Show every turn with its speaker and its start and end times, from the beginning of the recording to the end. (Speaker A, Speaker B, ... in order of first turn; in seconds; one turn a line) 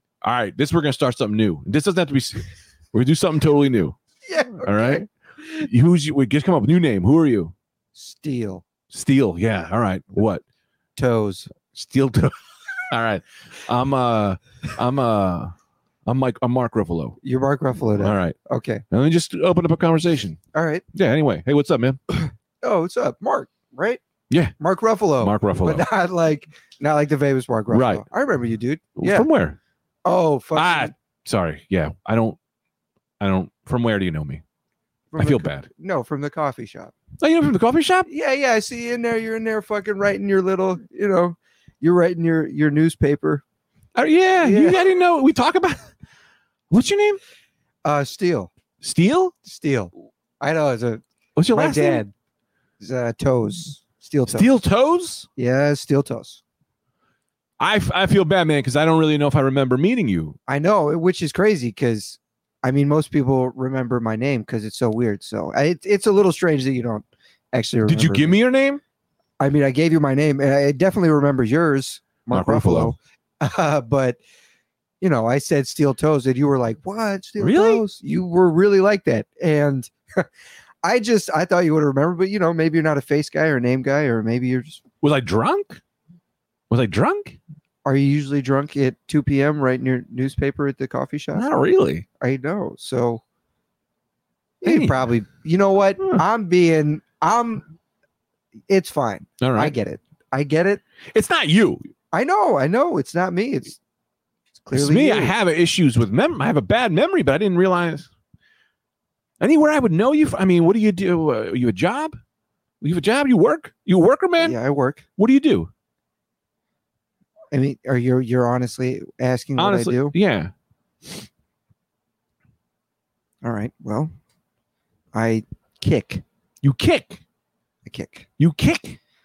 Speaker A: 0.2-4.0
Speaker B: 4.3-5.1
Speaker A: 4.6-7.5
Speaker B: 8.0-8.6
Speaker A: 8.9-10.4
Speaker B: 11.0-11.5
Speaker A: 11.7-12.4
Speaker A: 12.9-15.5
Speaker A: 16.1-17.2
Speaker B: 17.2-18.8
Speaker A: 18.0-18.4
Speaker A: 18.9-20.4
Speaker B: 20.5-20.8
Speaker A: 20.9-22.0
Speaker B: 22.6-24.0
Speaker A: 24.3-24.6
Speaker B: 24.6-29.3
Speaker A: 25.2-25.9
Speaker A: 27.7-28.1
Speaker A: 29.0-29.6
Speaker B: 30.1-30.9
Speaker A: 30.6-32.4
Speaker A: 33.2-34.4
Speaker B: 35.1-37.0
Speaker A: 35.2-35.7
Speaker A: 37.2-38.1
Speaker B: 38.1-43.4
Speaker A: 44.0-45.9
Speaker B: 44.4-44.8
Speaker A: 46.7-47.2
Speaker B: 47.8-48.5
Speaker A: 48.8-49.3
Speaker B: 49.4-52.1
Speaker A: 51.4-52.0
Speaker B: 52.8-54.5
Speaker A: 54.3-55.3
Speaker B: 55.4-56.4
Speaker A: 57.6-60.4
Speaker B: 60.5-68.4
Speaker A: 67.9-68.8
Speaker B: 69.4-74.2
Speaker A: 72.3-73.0
Speaker B: 75.0-80.3
Speaker A: 77.4-77.8
Speaker B: 80.8-84.8
Speaker A: 85.0-85.8
Speaker A: 86.7-87.4
Speaker B: 87.8-91.5
Speaker A: 91.3-92.1
Speaker B: 92.2-93.2
Speaker B: 94.6-97.6
Speaker A: 94.6-95.1
Speaker B: 98.7-100.8
Speaker A: 99.4-99.8
Speaker A: 101.1-101.8
Speaker B: 102.1-103.8
Speaker B: 104.6-105.3
Speaker A: 104.7-108.1
Speaker A: 109.4-112.2
Speaker A: 112.8-114.6
Speaker B: 114.4-115.0
Speaker A: 115.2-115.7
Speaker B: 117.5-120.2
Speaker A: 119.6-120.5
Speaker B: 123.4-124.1
Speaker B: 125.1-126.2
Speaker A: 126.6-127.2
Speaker B: 127.9-128.3
Speaker A: 128.4-129.0